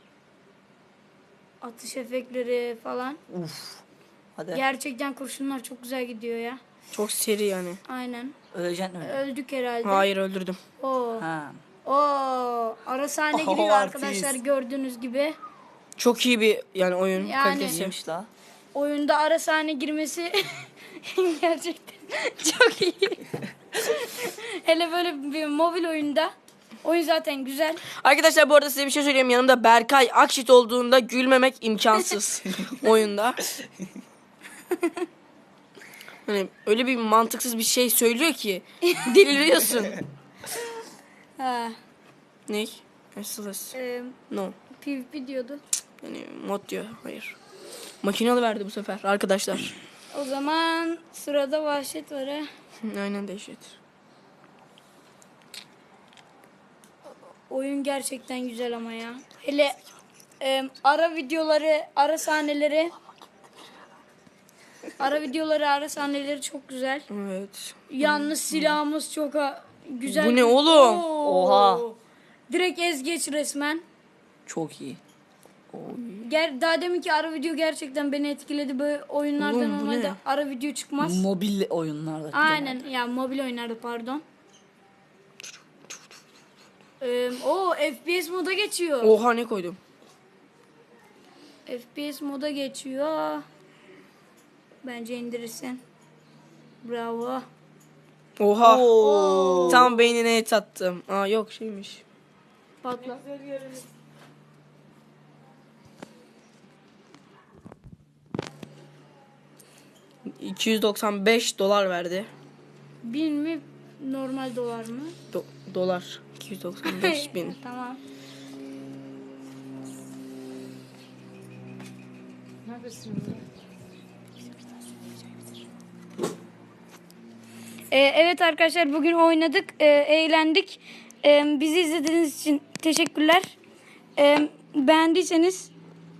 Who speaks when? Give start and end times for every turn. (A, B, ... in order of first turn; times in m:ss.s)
0:01.6-0:03.2 A
0:03.3-0:03.8 B
0:04.4-0:04.6 B
0:04.5-0:06.6 A
0:06.9-0:07.8 C
0:07.9-0:08.3 A
0:08.5-0:09.2 B
0:09.0-0:10.1 A
0:09.8-0:10.6 C
0:10.8-0:11.2 A
0:11.2-0:11.6 B
0:11.8-0:15.4 A
0:13.3-0:14.4 B
0:16.0-0:18.0 C
0:17.2-0:17.8 A
0:17.6-0:18.3 B
0:18.7-0:27.8 A
0:27.9-0:33.4 C
0:36.3-0:40.0 C
0:38.9-0:39.3 A
0:41.4-0:41.8 A
0:42.5-0:43.8 C
0:43.8-0:44.2 A
0:44.3-0:44.6 C
0:44.8-0:45.6 A
0:46.0-0:47.4 C
0:48.0-0:49.8 C
0:50.1-0:52.5 A
0:52.8-0:53.8 C
0:57.5-0:59.8 A
1:00.4-1:02.9 A
1:05.0-1:07.1 A
1:07.1-1:08.8 C
1:07.9-1:12.0 A
1:10.0-1:11.0 C
1:11.2-1:11.9 B
1:12.5-1:13.8 A
1:14.5-1:15.0 B
1:15.7-1:16.3 C
1:16.2-1:21.3 A
1:19.4-1:20.2 C
1:21.0-1:22.8 B
1:22.3-1:24.2 A
1:27.0-1:29.1 A
1:29.0-1:29.8 C
1:31.7-1:33.4 A
1:34.8-1:35.8 A
1:36.8-1:37.5 A
1:38.4-1:38.9 C
1:38.6-1:39.9 B
1:39.0-1:39.9 A
1:39.7-1:42.0 C
1:42.8-1:43.2 A
1:50.4-1:52.3 C
1:53.0-1:55.2 A
1:55.3-1:57.6 C
1:56.8-1:58.0 A
2:07.9-2:13.5 A
2:14.2-2:15.7 A